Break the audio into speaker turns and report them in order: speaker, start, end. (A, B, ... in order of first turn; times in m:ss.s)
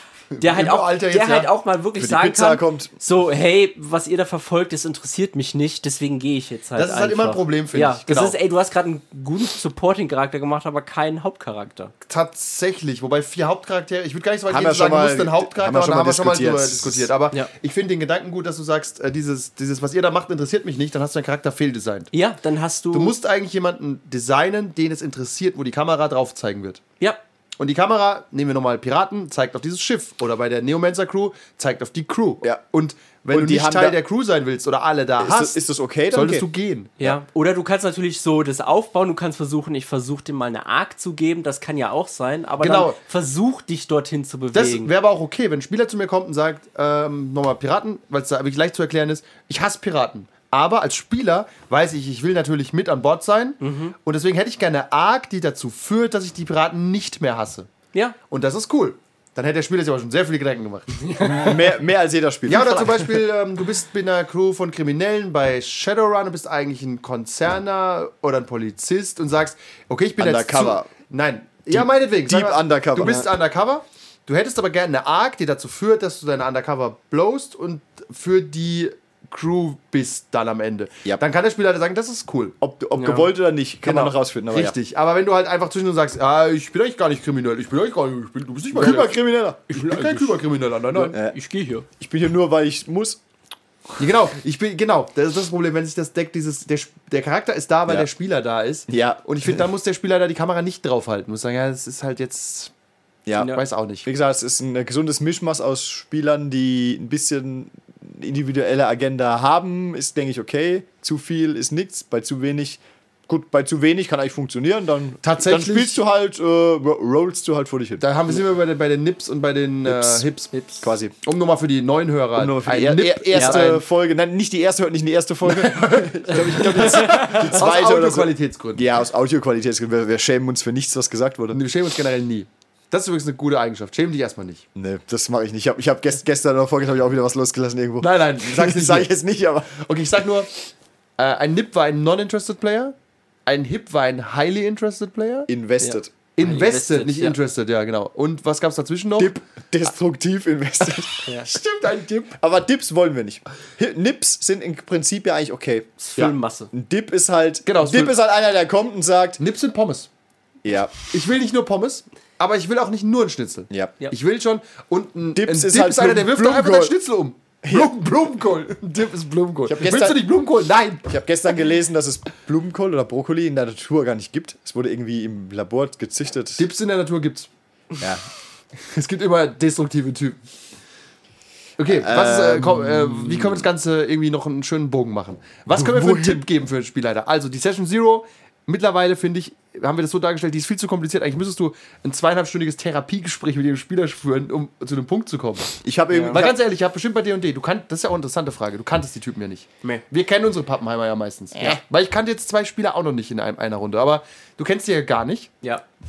0:00.3-0:01.5 A
0:00.4-0:11.9 B
0:02.0-0:02.9 C
0:06.8-0:08.4 A
0:12.1-0:22.1 A
0:14.5-0:17.1 C
0:22.1-0:23.1 B
0:22.9-0:26.8 A
0:27.6-0:36.9 A
0:33.3-0:34.0 C
0:35.2-0:36.5 C
0:37.0-0:44.9 B
0:42.6-0:43.0 A
0:44.5-0:57.7 A
0:53.6-0:54.0 B
0:58.3-1:01.0 A
1:01.0-1:01.7 B
1:01.2-1:03.2 C
1:02.5-1:22.6 A
1:10.2-1:10.9 C
1:11.7-1:13.2 C
1:22.6-1:24.8 C
1:23.0-1:23.3 B
1:23.8-1:29.2 A
1:28.7-1:29.9 C
1:29.7-1:31.2 A
1:29.7-1:30.4 B
1:30.9-1:31.9 B
1:32.0-1:33.2 C
1:34.0-1:42.7 A
1:38.9-1:39.6 C
1:43.3-1:58.0 C
1:43.4-1:43.6 B
1:43.4-1:44.1 A
1:55.2-1:56.0 A
1:58.0-2:00.5 A
1:59.9-2:00.3 C
2:00.5-2:00.9 B
2:00.8-2:01.1 C
2:01.2-2:03.8 A
2:02.4-2:11.6 C
2:03.4-2:03.6 B
2:05.4-2:08.9 A
2:06.8-2:07.6 B
2:11.5-2:14.6 A
2:14.8-2:19.8 C
2:18.0-2:19.1 A
2:19.7-2:20.5 A
2:21.2-2:23.0 A
2:23.5-2:25.5 A
2:25.5-2:26.1 C
2:25.8-2:27.4 B
2:26.4-2:29.4 A
2:29.2-2:31.4 C
2:31.4-2:32.4 A
2:32.4-2:35.9 C
2:36.0-2:36.7 B
2:36.7-2:39.4 C
2:37.7-2:38.2 A
2:39.4-2:40.1 A
2:40.6-2:40.9 C
2:41.1-2:51.2 A
2:45.4-2:46.9 C
2:47.6-2:47.9 C
2:49.7-2:50.3 C
2:51.1-2:56.6 C
2:56.6-2:57.5 A
2:58.0-2:58.3 C
2:58.8-3:00.4 A
3:01.8-3:15.8 A
3:01.9-3:03.6 C
3:05.7-3:06.4 C
3:15.8-3:16.6 C
3:16.1-3:16.5 B
3:16.3-3:25.5 A